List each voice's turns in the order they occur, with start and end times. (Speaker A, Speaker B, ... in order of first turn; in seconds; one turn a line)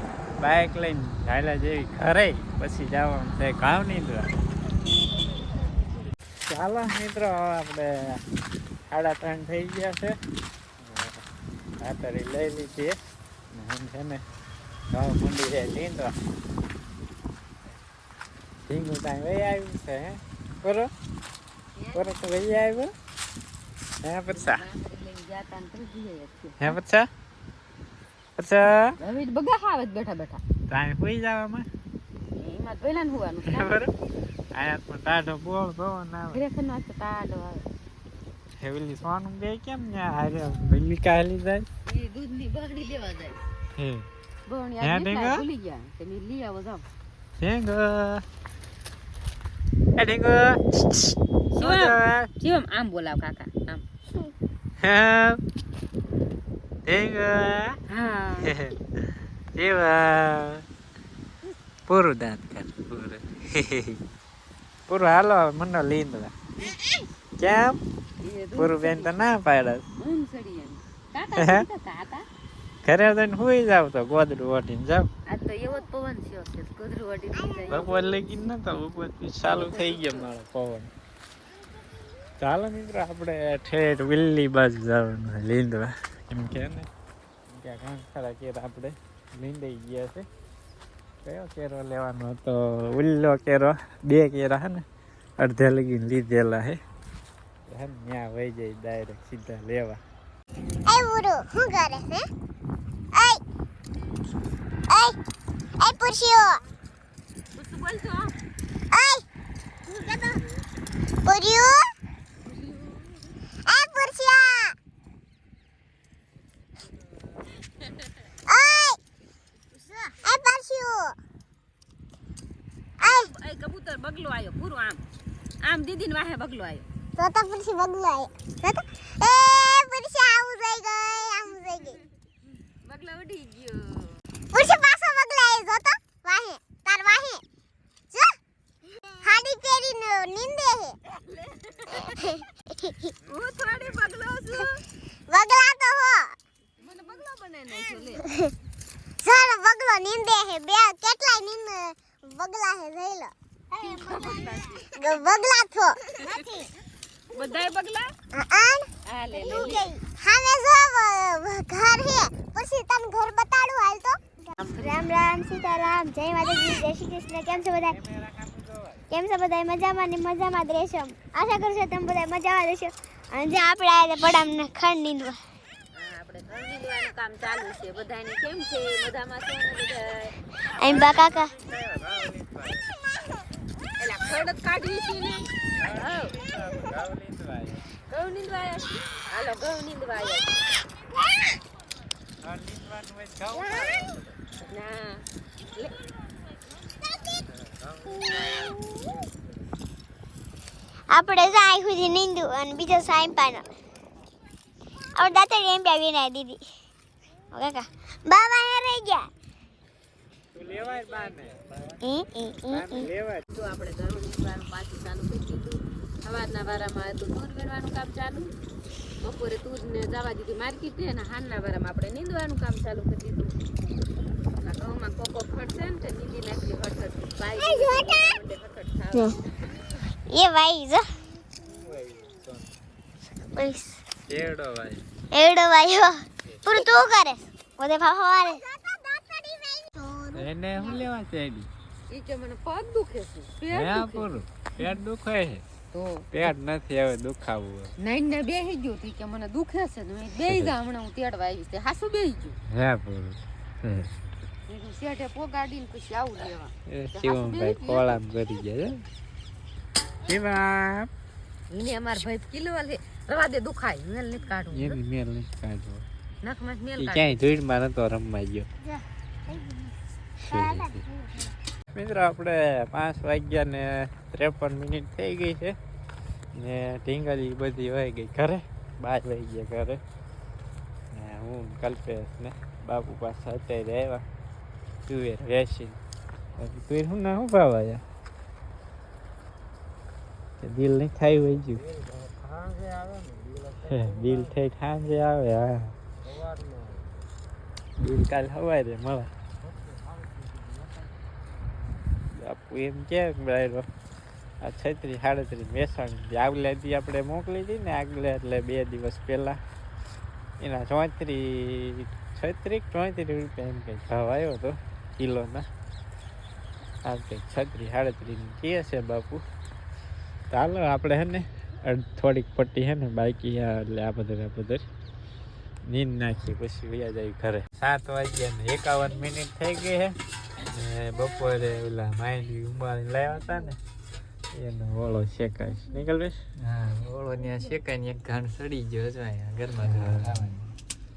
Speaker A: 0.4-4.4
Speaker A: 6.5-8.2
Speaker A: 8.9-10.2
Speaker A: 10.8-11.2
Speaker A: 11.8-12.9
Speaker A: 13.5-14.2
Speaker A: 14.9-16.1
Speaker A: 18.7-20.9
Speaker B: 21.8-22.3
Speaker A: 21.9-22.9
Speaker A: 24.0-24.7
Speaker B: 24.3-26.8
Speaker A: 26.6-27.1
Speaker A: 28.4-29.0
Speaker B: 29.0-30.4
Speaker A: 30.7-31.7
Speaker B: 32.4-33.8
Speaker A: 33.5-33.9
Speaker A: 34.5-36.5
Speaker B: 36.3-37.7
Speaker A: 38.6-41.6
Speaker B: 41.9-43.4
Speaker A: 43.8-44.1
Speaker B: 44.5-46.9
Speaker A: 44.8-45.5
Speaker A: 47.4-48.2
Speaker A: 50.0-50.6
Speaker A: 51.5-52.3
Speaker B: 51.5-53.9
Speaker A: 54.8-55.4
Speaker A: 56.9-57.7
Speaker B: 57.9-58.5
Speaker A: 58.4-58.8
Speaker A: 59.6-60.6
Speaker A: 61.9-64.0
Speaker A: 64.9-66.3
Speaker A: 67.4-67.8
Speaker B: 68.2-69.1
Speaker A: 68.6-69.8
Speaker B: 70.0-72.2
Speaker A: 71.4-71.7
Speaker A: 72.8-75.1
Speaker B: 75.3-78.2
Speaker A: 77.7-80.9
Speaker B: 79.4-80.3
Speaker A: 82.4-86.9
Speaker A: 87.5-90.3
Speaker A: 91.2-94.8
Speaker A: 95.4-96.8
Speaker A: 97.7-100.0
Speaker C: 100.9-102.2
Speaker C: 103.1-103.4
Speaker C: 104.9-105.2
Speaker C: 105.8-106.6
Speaker B: 107.5-108.3
Speaker C: 108.9-109.3
Speaker B: 109.9-110.3
Speaker C: 110.0-110.4
Speaker C: 111.2-111.9
Speaker B: 112.5-113.4
Speaker C: 113.7-114.8
Speaker C: 118.5-119.0
Speaker B: 119.7-120.2
Speaker C: 120.2-121.2
Speaker C: 123.0-123.3
Speaker B: 123.0-125.0
Speaker B: 125.6-126.9
Speaker C: 127.2-132.0
Speaker B: 132.8-134.2
Speaker C: 134.5-137.4
Speaker C: 138.1-138.4
Speaker C: 139.2-141.0
Speaker B: 141.3-142.1
Speaker C: 142.0-143.1
Speaker B: 143.2-144.8
Speaker C: 145.3-146.4
Speaker B: 146.8-148.3
Speaker C: 149.2-153.3
Speaker B: 153.7-155.2
Speaker C: 153.8-156.7
Speaker B: 156.1-156.5
Speaker B: 157.3-158.1
Speaker C: 158.3-168.0
Speaker B: 159.1-159.9
Speaker B: 164.6-165.1
Speaker A: 167.7-169.0
Speaker C: 169.1-175.4
Speaker B: 175.9-180.3
Speaker C: 180.8-181.5
Speaker A: 180.8-182.9
Speaker B: 184.0-186.4
Speaker A: 185.8-187.9
Speaker B: 188.1-190.6
Speaker A: 192.4-194.4
Speaker B: 194.7-196.0
Speaker A: 197.8-198.8
Speaker C: 201.1-203.7
Speaker C: 205.2-206.6
Speaker C: 207.5-209.3
Speaker A: 210.5-211.6
Speaker C: 212.0-213.1
Speaker A: 212.6-213.5
Speaker B: 213.5-218.5
Speaker B: 219.2-223.6
Speaker B: 224.6-229.4
Speaker C: 227.5-228.4
Speaker C: 229.1-229.4
Speaker C: 230.3-231.1
Speaker D: 231.7-232.7
Speaker C: 233.6-234.0
Speaker D: 234.3-235.0
Speaker C: 235.3-241.0
Speaker A: 240.3-241.7
Speaker B: 242.1-244.3
Speaker A: 243.7-245.6
Speaker B: 245.9-246.5
Speaker A: 246.3-247.9
Speaker B: 248.0-252.6
Speaker A: 250.4-250.8
Speaker A: 252.7-254.1
Speaker B: 254.7-258.2
Speaker A: 256.9-259.0
Speaker A: 260.3-261.1
Speaker B: 261.7-265.0
Speaker A: 264.7-266.1
Speaker B: 266.4-267.4
Speaker A: 267.0-268.7
Speaker A: 270.4-271.0
Speaker C: 270.5-271.3
Speaker A: 271.9-275.8
Speaker A: 276.6-280.0
Speaker A: 281.1-284.2
Speaker A: 285.1-286.0
Speaker A: 286.6-288.0
Speaker A: 290.6-291.8
Speaker D: 291.7-294.5
Speaker A: 293.9-295.9
Speaker D: 296.2-297.2
Speaker A: 298.0-299.3
Speaker D: 299.6-301.1
Speaker A: 302.3-303.9
Speaker A: 304.6-309.6
Speaker A: 310.6-315.7
Speaker A: 317.1-319.4
Speaker A: 320.5-324.8
Speaker A: 325.9-330.1
Speaker A: 330.7-333.8
Speaker A: 334.5-336.4
Speaker D: 336.6-340.7
Speaker A: 339.8-340.4